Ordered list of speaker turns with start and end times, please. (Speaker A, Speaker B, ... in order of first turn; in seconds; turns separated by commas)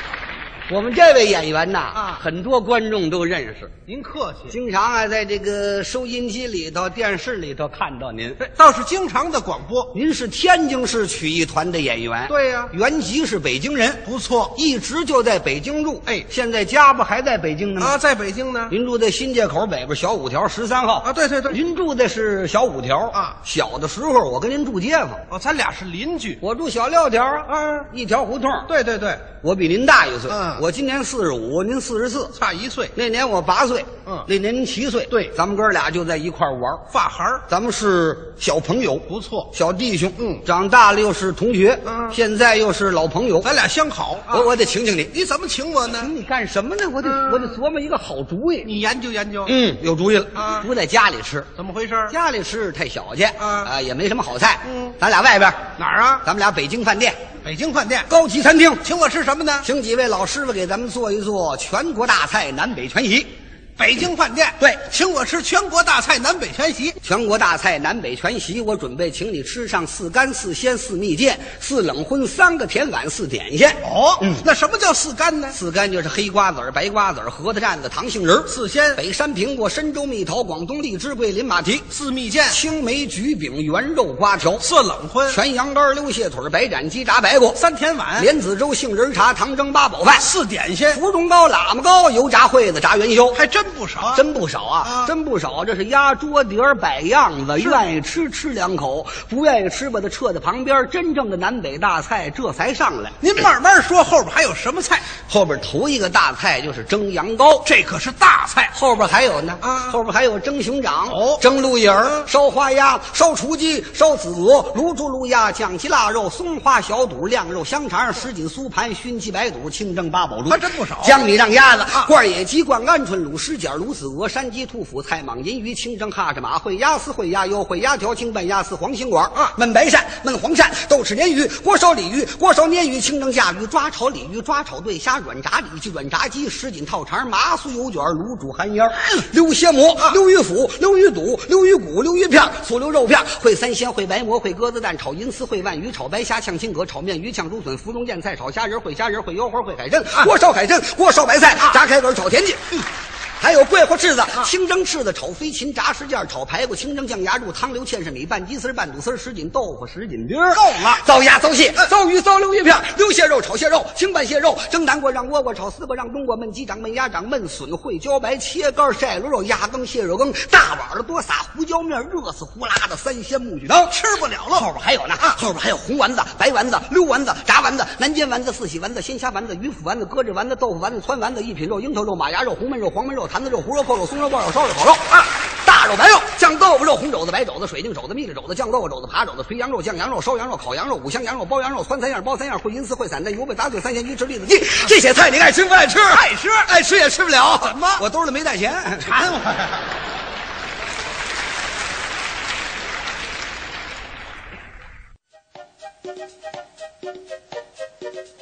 Speaker A: 0.7-3.8, Speaker B: 1.9-2.2, Speaker B: 3.9-4.6, Speaker A: 4.5-8.4, Speaker B: 8.4-9.9, Speaker A: 9.9-14.0, Speaker B: 12.3-12.7, Speaker B: 14.0-14.6, Speaker A: 14.6-18.0, Speaker B: 17.8-18.7, Speaker A: 18.7-25.2, Speaker B: 21.0-21.6, Speaker B: 25.3-26.4, Speaker A: 26.4-28.7, Speaker B: 27.5-27.9, Speaker B: 28.7-29.3, Speaker A: 29.4-32.3, Speaker B: 30.3-30.6, Speaker B: 32.3-32.9, Speaker A: 33.0-36.9, Speaker B: 36.9-37.4, Speaker A: 37.5-43.5, Speaker B: 39.1-39.5, Speaker B: 41.9-42.1, Speaker B: 43.4-44.5, Speaker A: 44.3-45.1, Speaker B: 45.1-46.1, Speaker A: 45.9-48.7, Speaker B: 47.1-47.4, Speaker B: 48.6-49.5, Speaker A: 49.5-51.5, Speaker B: 50.4-50.6, Speaker B: 51.5-52.1, Speaker A: 52.1-55.7, Speaker B: 53.4-53.7, Speaker B: 54.7-54.9, Speaker B: 55.8-56.2, Speaker A: 56.2-57.2, Speaker B: 57.4-58.1, Speaker A: 58.1-58.8, Speaker B: 58.8-59.7, Speaker A: 59.6-63.3, Speaker B: 63.8-67.0, Speaker A: 67.0-74.4, Speaker B: 73.8-75.6, Speaker A: 75.5-81.9, Speaker B: 78.5-79.0, Speaker B: 81.9-82.6, Speaker A: 82.5-84.7, Speaker B: 84.6-85.4, Speaker A: 85.3-87.6, Speaker B: 87.6-88.3, Speaker A: 88.2-90.3, Speaker B: 90.1-91.0, Speaker A: 90.9-93.4, Speaker B: 93.3-94.2, Speaker A: 94.1-103.2, Speaker B: 94.8-95.1, Speaker B: 103.2-105.1, Speaker A: 105.3-107.7, Speaker B: 107.7-108.7, Speaker A: 108.7-152.6, Speaker B: 109.6-110.0, Speaker B: 111.1-111.4, Speaker B: 120.5-121.3, Speaker A: 153.4-173.9, Speaker B: 160.5-161.0, Speaker B: 173.9-174.7, Speaker A: 174.6-199.1, Speaker B: 196.1-196.7, Speaker B: 197.6-198.0, Speaker B: 199.1-199.7